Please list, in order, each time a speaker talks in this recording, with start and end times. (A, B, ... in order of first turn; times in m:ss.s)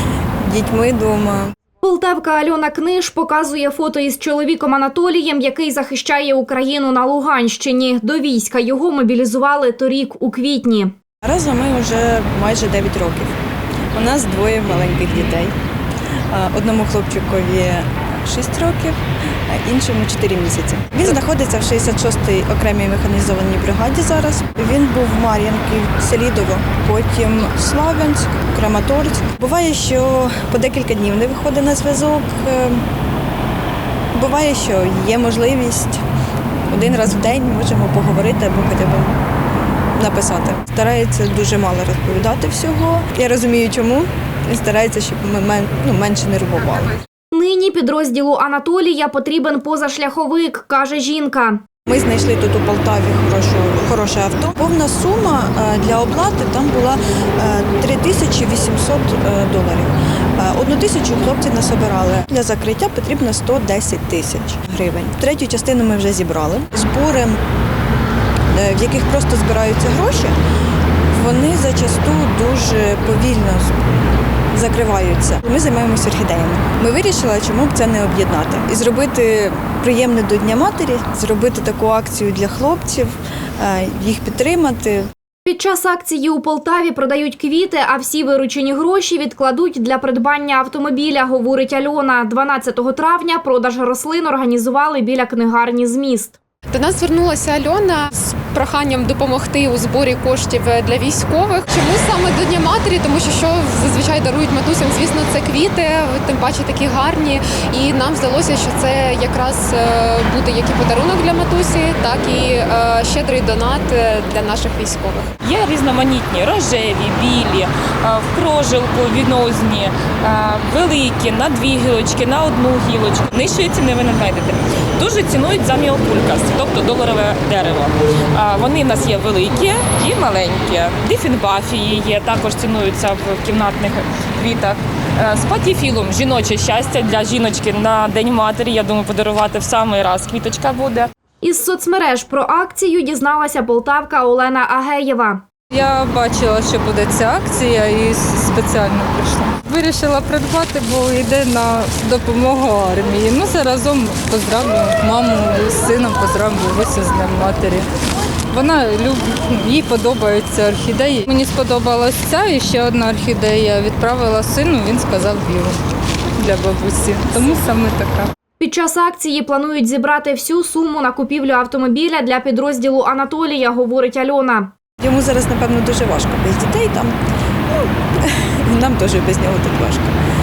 0:00.4-0:01.5 A
0:01.8-0:10.9 B
0:11.2-0:13.3 A
0:13.9-0:15.5 A
0:16.3-0:32.8 A
0:34.1-0:36.0 A
0:36.7-0:39.2 A
0:40.0-0:46.9 A
0:47.3-0:51.6 B
0:51.8-1:07.4 A
1:08.5-1:10.4 A
1:11.1-1:13.8 A
1:14.5-1:25.1 A
1:25.4-1:36.4 B
1:36.7-1:55.3 C
1:55.4-2:21.1 D
2:21.4-2:25.4 B
2:25.7-2:37.8 E
2:38.5-2:45.8 E
2:46.4-2:48.3 E
2:48.6-2:54.7 B
2:55.0-2:57.1 A
2:57.7-3:00.1 A